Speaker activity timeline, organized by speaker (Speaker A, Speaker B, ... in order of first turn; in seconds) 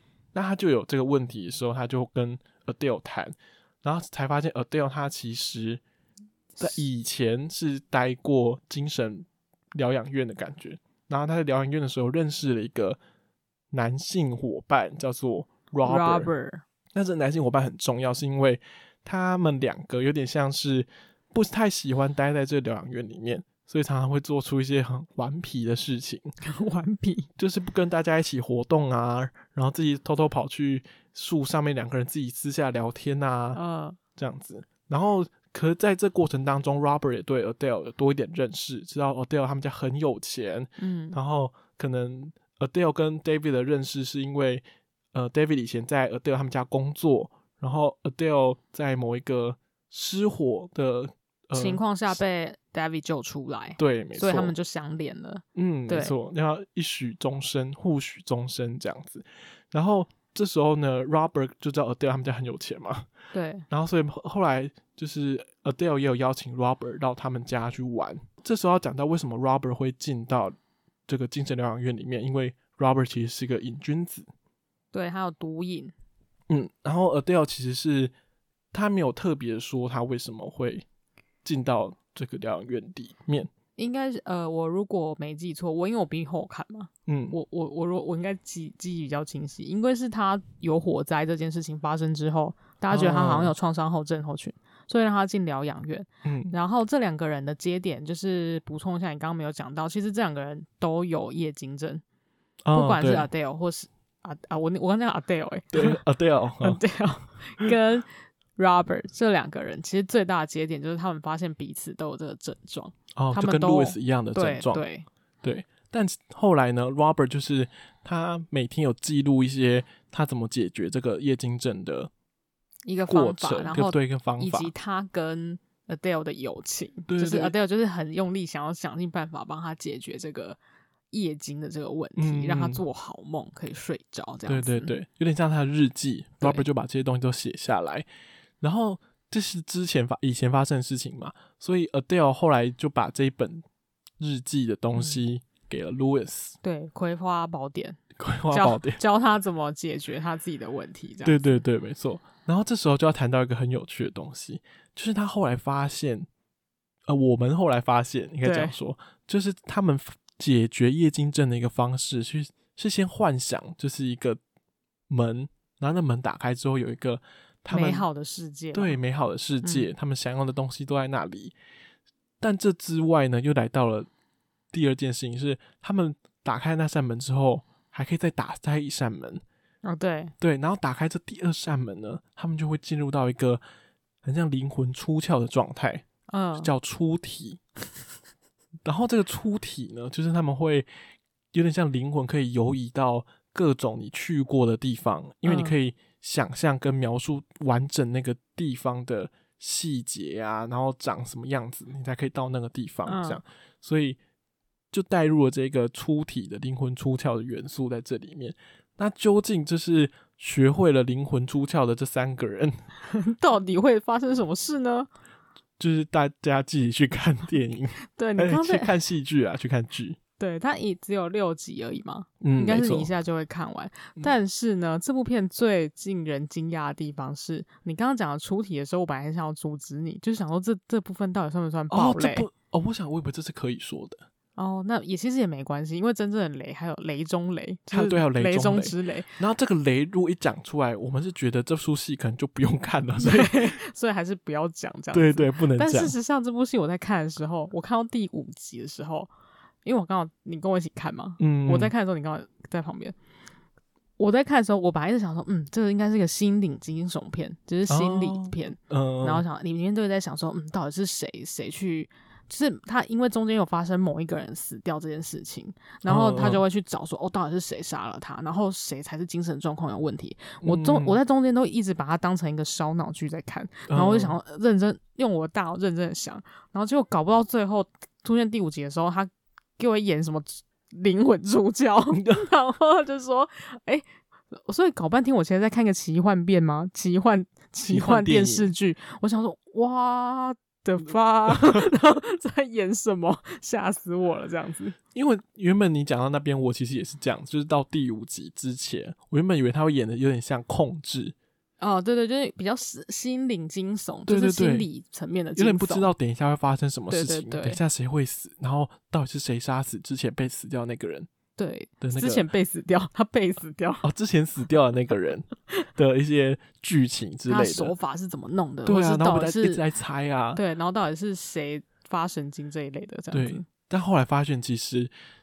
Speaker A: 0.3-5.8, 6.6-13.0, 13.7-16.3, 16.9-26.3, 27.4-33.6, 34.2-52.2, 53.8-54.5, 55.5-63.1, 63.7-70.6, 71.1-74.3, 76.5-78.1, 78.7-80.9, 81.4-83.5, 87.1-87.4, 92.9-93.5, 96.2-96.5, 102.6-103.3, 105.7-106.8, 113.2-114.8, 115.4-122.1, 123.1-124.7, 127.1-127.5, 132.2-132.8, 134.5-138.1, 138.6-143.6, 144.2-146.6, 148.2-149.0, 151.2-156.3, 157.1-164.4, 165.1-168.1, 168.7-171.5, 172.4-174.1, 174.7-179.4, 180.4-183.6, 184.2-186.1, 186.6-187.6, 188.8-190.9, 191.5-204.2, 204.9-212.7, 215.8-220.2, 222.4-223.1, 231.9-234.2, 237.9-243.8, 245.1-246.2, 251.4-251.9, 257.9-259.4, 266.1-266.6, 270.6-271.2, 273.9-274.4, 282.1-282.4, 287.8-288.7, 291.5-291.8, 295.1-301.4, 304.3-304.9, 305.6-311.3, 312.0-312.4, 314.0-317.9, 318.9-320.6, 323.3-325.1
Speaker B: 15.8-16.6, 26.4-27.3, 33.5-34.0, 40.8-41.2, 51.5-56.1, 63.3-63.7, 74.9-75.9, 83.8-102.0, 102.7-106.0, 106.6-115.1, 122.8-130.6, 131.1-134.9, 146.6-151.6, 158.4-158.7, 167.7-169.0, 169.6-169.9, 179.8-180.3, 186.3-186.7, 195.4-195.8, 203.1-203.4, 213.0-215.1, 218.2-218.9, 220.4-232.5, 234.6-239.3, 243.2-249.3, 249.8-253.2, 254.2-284.1, 284.6-295.0, 301.8-306.1, 307.1-307.8, 311.6-314.0, 317.5-319.8, 320.6-323.6